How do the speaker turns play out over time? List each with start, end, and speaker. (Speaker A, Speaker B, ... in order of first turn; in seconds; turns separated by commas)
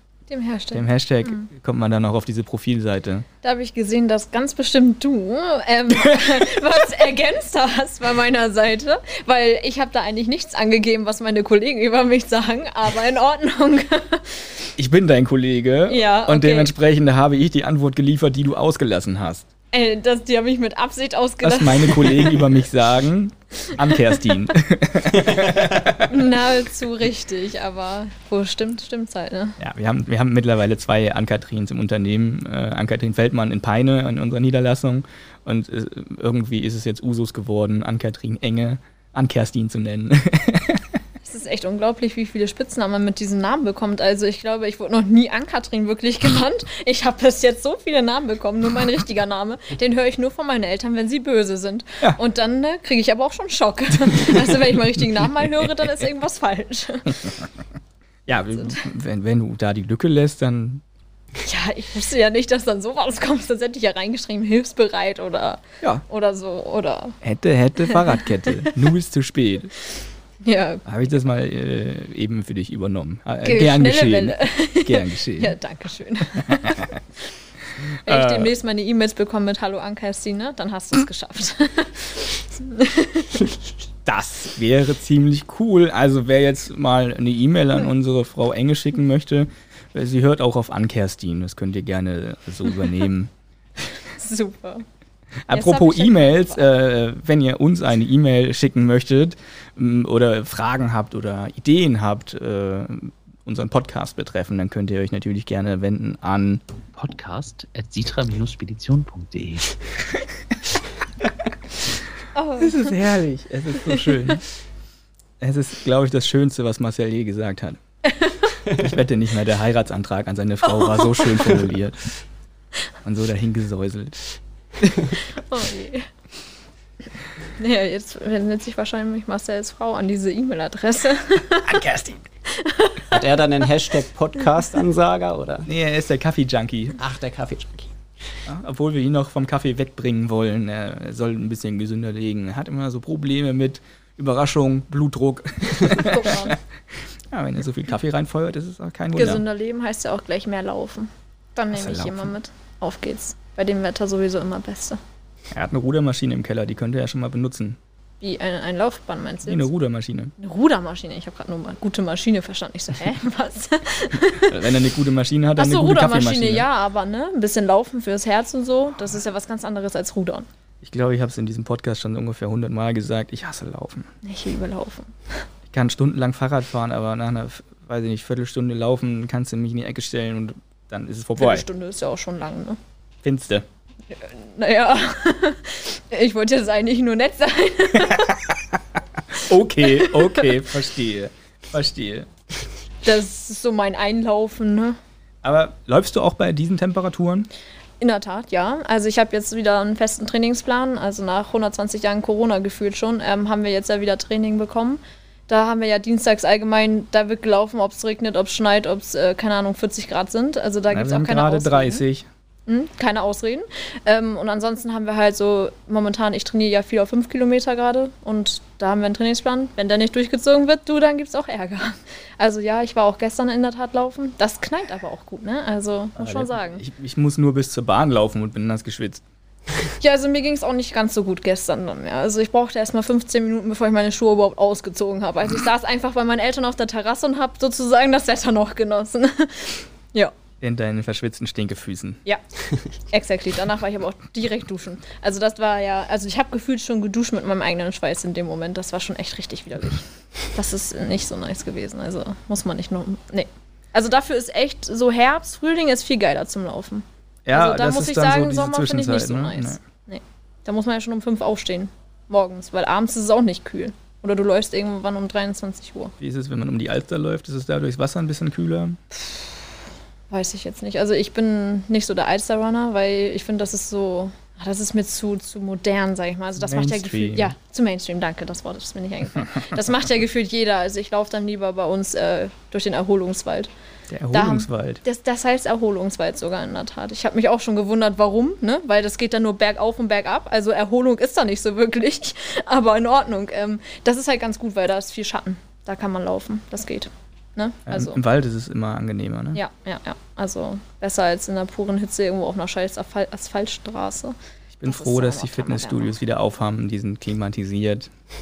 Speaker A: 0.3-1.4, Speaker B: 0.7-3.2, Speaker A: 3.4-14.7, Speaker B: 14.8-19.4, Speaker A: 15.9-16.7, Speaker A: 19.7-22.5, Speaker B: 21.4-26.2, Speaker A: 26.0-29.6, Speaker B: 29.6-41.0, Speaker A: 41.2-57.2, Speaker B: 58.3-60.8, Speaker A: 61.4-67.2, Speaker B: 67.2-69.7, Speaker A: 70.4-70.8, Speaker B: 70.8-75.5, Speaker A: 73.4-76.9, Speaker B: 76.4-77.0, Speaker B: 77.8-78.5, Speaker A: 77.9-83.5, Speaker B: 84.0-93.3, Speaker A: 94.1-94.8, Speaker B: 95.5-106.6, Speaker A: 95.5-96.7, Speaker C: 106.9-109.8, Speaker A: 112.3-113.0, Speaker B: 112.6-114.4, Speaker A: 113.8-114.4, Speaker B: 115.4-117.8, Speaker A: 118.1-118.5, Speaker B: 118.7-122.2, Speaker A: 120.7-121.3, Speaker B: 123.0-124.3, Speaker A: 125.3-126.1, Speaker A: 127.6-131.8, Speaker B: 131.6-132.2, Speaker A: 132.5-133.2, Speaker D: 133.1-135.7, Speaker B: 135.7-137.0, Speaker D: 137.0-137.9, Speaker B: 138.4-146.6, Speaker A: 145.9-146.6, Speaker B: 147.3-149.4, Speaker A: 149.2-155.0, Speaker B: 151.7-152.3, Speaker B: 155.5-157.8, Speaker A: 158.2-159.7, Speaker B: 159.4-160.3, Speaker A: 160.4-164.7, Speaker B: 164.4-166.7, Speaker A: 165.6-170.5, Speaker B: 170.8-174.1, Speaker A: 174.2-175.2, Speaker B: 175.7-181.7, Speaker A: 181.4-182.8, Speaker B: 183.2-183.7, Speaker A: 184.1-188.4, Speaker B: 188.1-188.8, Speaker B: 189.3-192.3, Speaker A: 189.9-190.4, Speaker A: 193.0-195.0, Speaker B: 195.4-197.5, Speaker A: 198.0-212.0, Speaker B: 210.9-212.3, Speaker A: 212.7-226.8, Speaker B: 226.2-229.2, Speaker A: 230.0-240.3, Speaker B: 240.6-242.2, Speaker A: 243.1-266.1, Speaker B: 257.4-259.8, Speaker B: 266.2-269.0, Speaker A: 269.1-269.5, Speaker A: 270.3-283.7, Speaker B: 276.6-277.5, Speaker B: 284.1-285.0, Speaker A: 284.3-298.2, Speaker B: 297.9-299.6, Speaker A: 299.5-306.2, Speaker B: 304.7-308.1